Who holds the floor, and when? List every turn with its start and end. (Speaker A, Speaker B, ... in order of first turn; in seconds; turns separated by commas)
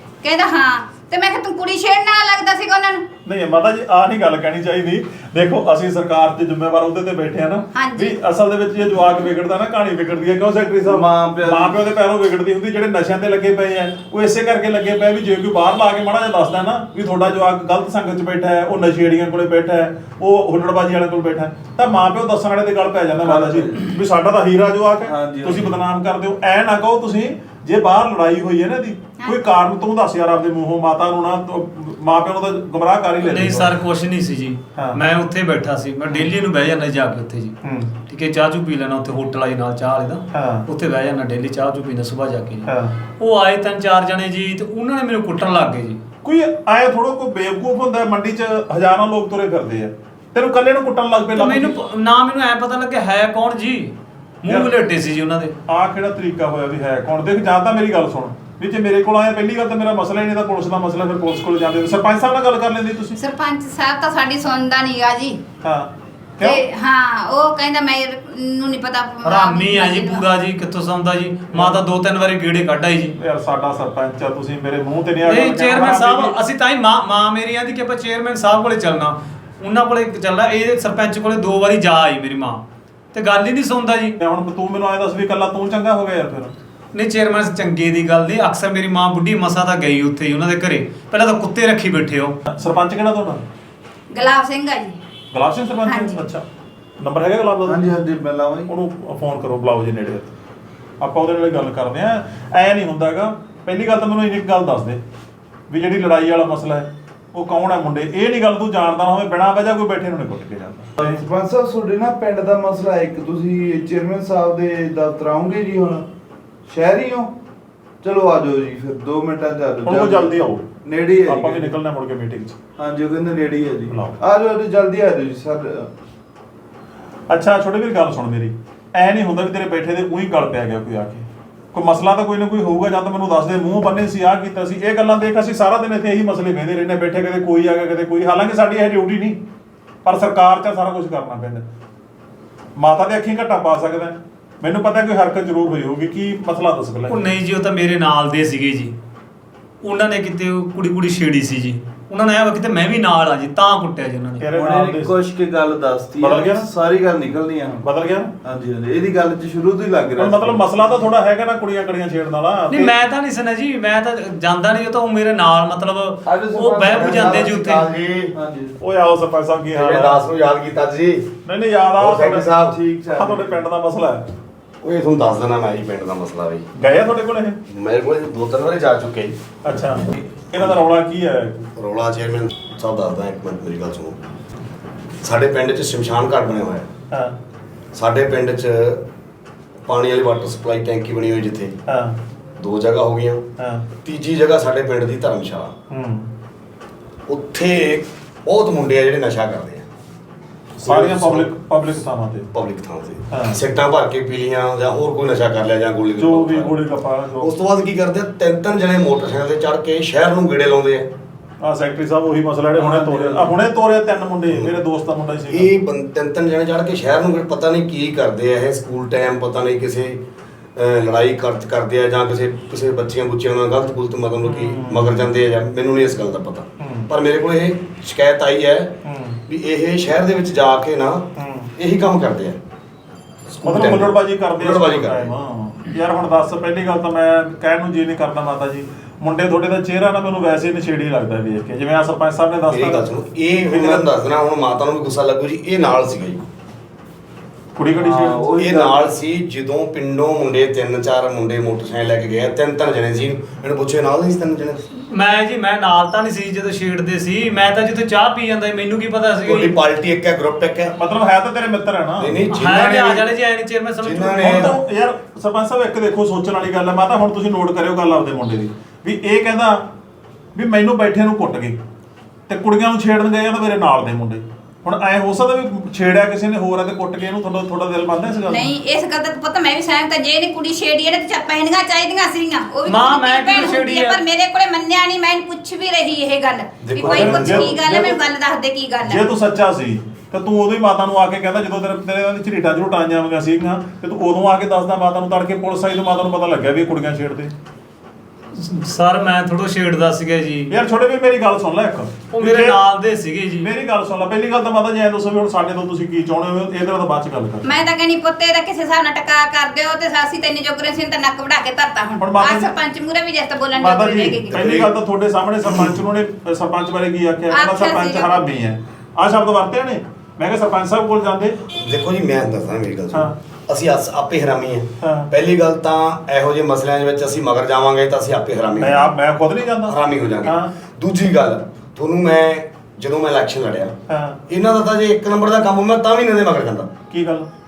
Speaker A: 0.2-3.1, Speaker B: 3.3-33.8, Speaker A: 7.8-8.2, Speaker C: 10.8-11.9, Speaker C: 23.2-23.9, Speaker C: 25.0-25.8, Speaker D: 33.2-37.6, Speaker B: 37.6-37.9, Speaker D: 38.1-46.0, Speaker B: 40.3-40.7, Speaker B: 42.7-42.9, Speaker B: 46.2-51.8, Speaker D: 51.4-55.5, Speaker B: 55.7-63.2, Speaker A: 63.2-65.4, Speaker B: 65.6-66.6, Speaker A: 66.4-70.2, Speaker D: 69.2-73.2, Speaker B: 71.5-71.8, Speaker B: 73.2-76.3, Speaker D: 75.2-82.6, Speaker D: 83.1-84.2, Speaker B: 84.2-86.5, Speaker D: 86.9-92.4, Speaker B: 92.5-93.4, Speaker A: 94.1-95.0, Speaker B: 95.3-96.5, Speaker A: 95.8-96.2, Speaker B: 97.0-97.8, Speaker C: 97.6-98.7, Speaker B: 98.7-100.3, Speaker B: 101.0-105.0, Speaker B: 105.7-111.2, Speaker C: 111.0-116.1, Speaker C: 116.7-117.3, Speaker C: 118.0-121.8, Speaker B: 119.8-120.7, Speaker B: 121.3-122.6, Speaker C: 122.8-125.9, Speaker B: 123.9-124.2, Speaker B: 127.3-139.4, Speaker B: 140.1-141.7, Speaker B: 142.8-147.2, Speaker D: 147.1-148.9, Speaker D: 149.8-154.4, Speaker B: 154.4-155.1, Speaker C: 154.5-157.9, Speaker B: 156.2-156.7, Speaker B: 157.8-158.3, Speaker C: 158.4-161.1, Speaker B: 160.2-162.9, Speaker D: 162.7-167.9, Speaker C: 166.2-167.6, Speaker E: 167.4-168.3, Speaker C: 168.3-168.8, Speaker B: 168.8-170.2, Speaker E: 169.7-171.3, Speaker B: 171.5-172.5, Speaker E: 172.0-172.8, Speaker C: 172.6-173.6, Speaker B: 173.2-174.2, Speaker E: 174.8-176.7, Speaker B: 176.8-177.6, Speaker E: 177.7-179.4, Speaker B: 179.6-181.6, Speaker E: 181.8-184.2, Speaker E: 185.2-186.9, Speaker E: 187.9-189.1, Speaker E: 189.9-191.8, Speaker B: 191.9-192.2, Speaker E: 192.6-193.5, Speaker B: 193.6-193.9, Speaker E: 194.0-195.7, Speaker B: 195.9-196.3, Speaker E: 197.3-199.9, Speaker E: 200.8-201.5, Speaker B: 200.8-202.5, Speaker E: 202.5-206.7, Speaker B: 203.3-203.6, Speaker B: 206.2-207.5, Speaker E: 207.4-211.1, Speaker B: 211.6-215.7, Speaker C: 212.8-213.6, Speaker E: 215.5-220.2, Speaker E: 220.8-232.6, Speaker B: 224.4-225.2, Speaker B: 226.8-227.1, Speaker B: 229.1-229.4, Speaker B: 231.4-231.7, Speaker E: 233.5-235.3, Speaker B: 233.6-243.1, Speaker E: 242.7-246.4, Speaker B: 243.7-244.1, Speaker B: 247.8-248.4, Speaker C: 247.9-249.1, Speaker E: 248.6-254.8, Speaker D: 255.1-259.7, Speaker E: 259.4-260.9, Speaker B: 260.9-262.4, Speaker E: 262.2-263.2, Speaker D: 262.5-264.8, Speaker E: 264.0-264.8, Speaker B: 264.4-269.8, Speaker B: 270.6-271.8, Speaker B: 272.5-278.7, Speaker A: 278.5-289.3, Speaker D: 282.9-284.2, Speaker E: 286.8-287.8, Speaker B: 287.1-288.2, Speaker B: 289.0-297.5, Speaker D: 298.6-300.7, Speaker B: 300.7-302.8, Speaker D: 302.3-303.7, Speaker B: 303.6-307.7, Speaker A: 307.6-314.8, Speaker B: 312.2-312.7, Speaker B: 313.8-321.6, Speaker E: 314.5-314.9, Speaker A: 317.5-318.4, Speaker E: 321.7-329.1, Speaker B: 325.0-325.3, Speaker B: 328.8-330.7, Speaker E: 329.9-333.9, Speaker B: 334.1-334.4, Speaker E: 334.5-336.9, Speaker B: 337.1-337.5